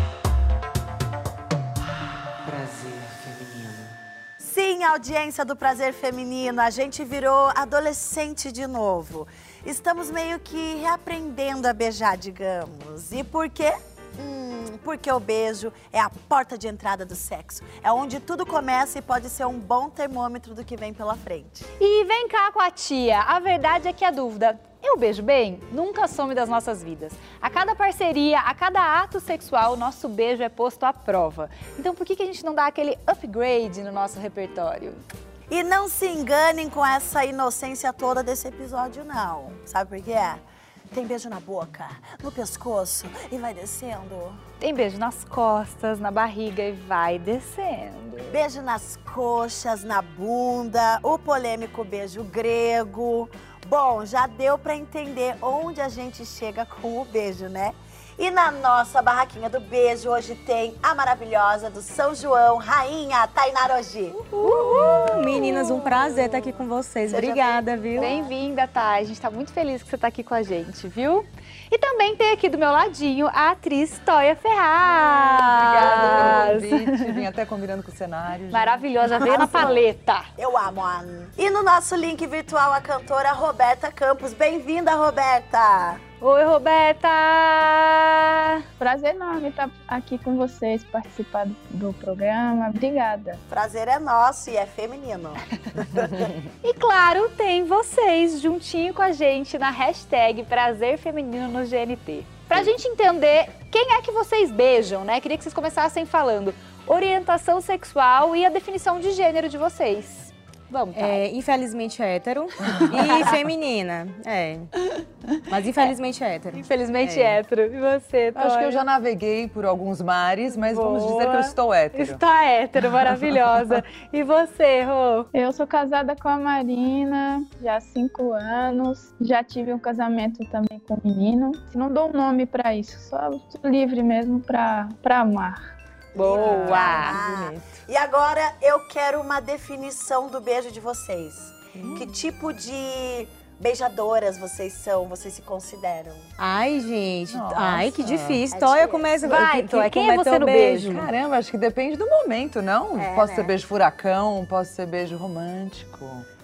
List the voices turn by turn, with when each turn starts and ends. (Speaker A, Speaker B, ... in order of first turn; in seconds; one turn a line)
Speaker A: 2.4-3.9
Speaker B: 4.4-21.7
Speaker C: 21.8-35.0
Speaker B: 35.5-44.4
Speaker C: 44.6-48.4
Speaker B: 48.3-64.2
Speaker C: 64.4-65.1
Speaker D: 64.6-68.1
Speaker B: 65.7-66.5
Speaker B: 67.1-68.2
Speaker C: 68.0-77.1
Speaker A: 75.2-79.7
Speaker B: 75.9-76.2
Speaker C: 78.5-80.3
Speaker B: 79.1-79.8
Speaker B: 80.4-86.0
Speaker C: 86.2-88.6
Speaker E: 88.8-93.4
Speaker B: 93.5-96.3
Speaker C: 96.6-111.2
Speaker D: 111.0-114.7
Speaker D: 115.5-117.4
Speaker C: 116.5-118.8
Speaker A: 118.4-122.2
Speaker C: 120.5-125.3
Speaker E: 125.3-135.6
Speaker B: 136.1-146.3
Speaker C: 136.2-137.2
Speaker A: 136.4-137.8
Speaker A: 141.8-142.1
Speaker D: 146.4-151.1
Speaker A: 147.3-148.5
Speaker B: 148.5-149.4
Speaker C: 149.2-151.0
Speaker A: 150.9-156.2
Speaker C: 153.0-153.5